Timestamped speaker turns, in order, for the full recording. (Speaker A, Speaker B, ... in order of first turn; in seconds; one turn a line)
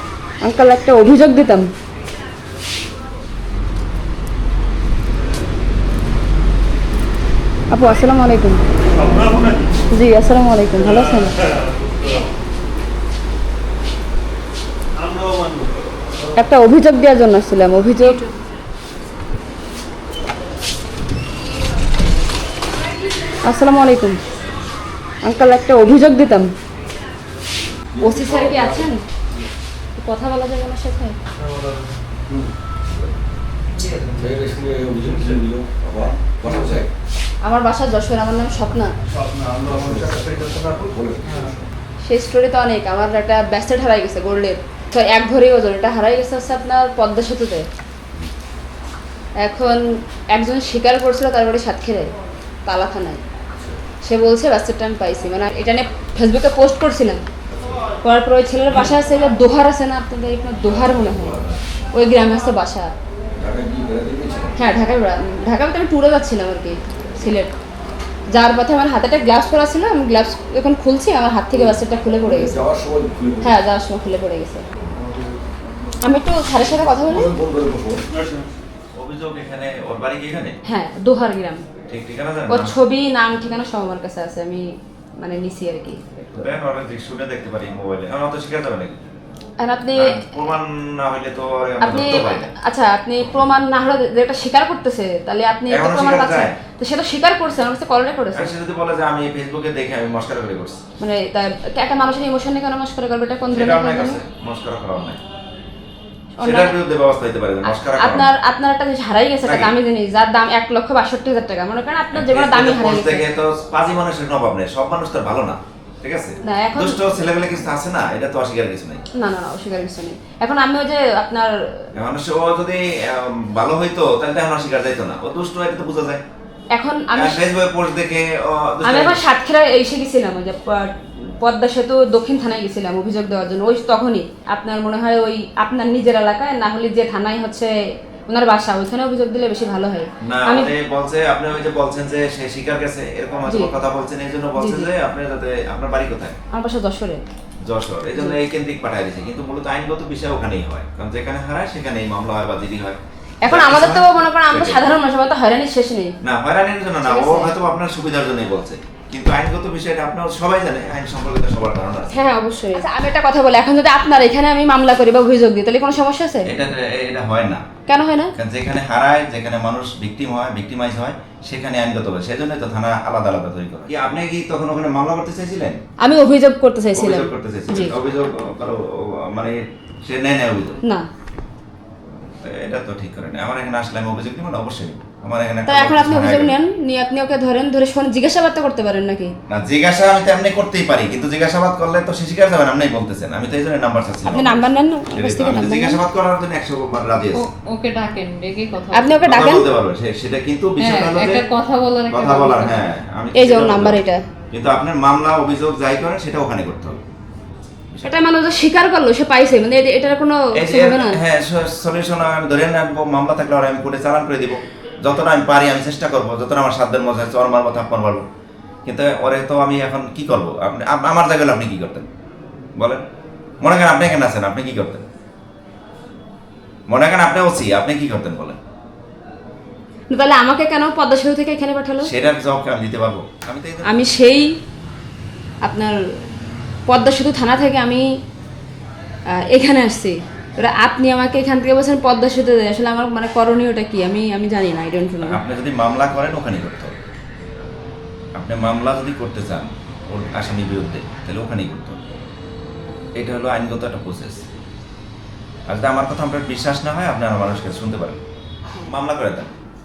Speaker A: 0.4-1.7
Speaker A: 7.7-8.6
Speaker A: 9.9-11.5
Speaker B: 15.3-15.7
Speaker A: 16.4-18.2
Speaker A: 23.4-24.2
Speaker A: 25.2-26.5
Speaker C: 27.9-28.9
Speaker A: 28.0-29.0
Speaker A: 30.0-31.2
Speaker C: 34.1-36.9
Speaker A: 37.4-38.9
Speaker C: 39.6-41.7
Speaker A: 42.0-47.7
Speaker A: 49.4-52.1
Speaker A: 52.6-53.2
Speaker A: 54.0-57.2
Speaker A: 58.0-62.9
Speaker C: 63.4-64.5
Speaker A: 64.5-67.5
Speaker A: 68.3-72.5
Speaker C: 72.2-73.5
Speaker A: 73.4-74.7
Speaker A: 76.0-77.3
Speaker C: 77.0-78.1
Speaker D: 78.9-80.6
Speaker A: 80.7-81.6
Speaker D: 81.9-82.7
Speaker A: 82.5-86.5
Speaker D: 86.4-89.0
Speaker A: 89.6-90.2
Speaker D: 90.0-92.5
Speaker A: 91.8-98.5
Speaker D: 95.7-96.6
Speaker D: 98.3-100.8
Speaker A: 101.0-104.2
Speaker D: 103.5-105.2
Speaker A: 106.4-106.7
Speaker D: 106.4-108.3
Speaker A: 107.6-113.3
Speaker D: 109.4-109.7
Speaker D: 112.1-119.0
Speaker A: 116.4-117.0
Speaker A: 119.1-121.9
Speaker D: 121.9-126.2
Speaker A: 126.7-127.5
Speaker D: 127.1-129.2
Speaker A: 128.8-137.7
Speaker A: 138.3-140.7
Speaker D: 140.2-146.3
Speaker A: 143.5-143.7
Speaker A: 144.6-144.9
Speaker A: 146.5-147.2
Speaker D: 147.6-155.0
Speaker A: 153.4-156.2
Speaker D: 156.2-162.2
Speaker A: 157.0-157.5
Speaker A: 162.1-166.5
Speaker D: 166.4-167.6
Speaker A: 167.9-168.3
Speaker D: 168.3-175.8
Speaker A: 176.0-177.9
Speaker D: 176.9-180.8
Speaker D: 182.4-186.6
Speaker A: 185.7-189.3
Speaker D: 189.5-197.5
Speaker A: 194.2-196.0
Speaker B: 197.3-199.2
Speaker A: 198.9-199.7
Speaker D: 199.2-201.4
Speaker B: 200.8-202.8
Speaker D: 202.1-207.0
Speaker A: 203.3-204.2
Speaker D: 207.9-208.2
Speaker A: 208.0-211.2
Speaker D: 210.5-218.2
Speaker D: 218.8-222.1
Speaker D: 222.8-223.0
Speaker D: 223.6-225.0
Speaker D: 226.9-228.6
Speaker A: 230.1-232.1
Speaker D: 232.0-234.1
Speaker A: 233.8-234.6
Speaker A: 235.6-236.0
Speaker A: 236.9-238.1
Speaker A: 239.3-245.4
Speaker D: 245.2-246.9
Speaker D: 248.3-252.0
Speaker D: 253.2-254.4
Speaker D: 255.7-258.2
Speaker D: 258.8-259.5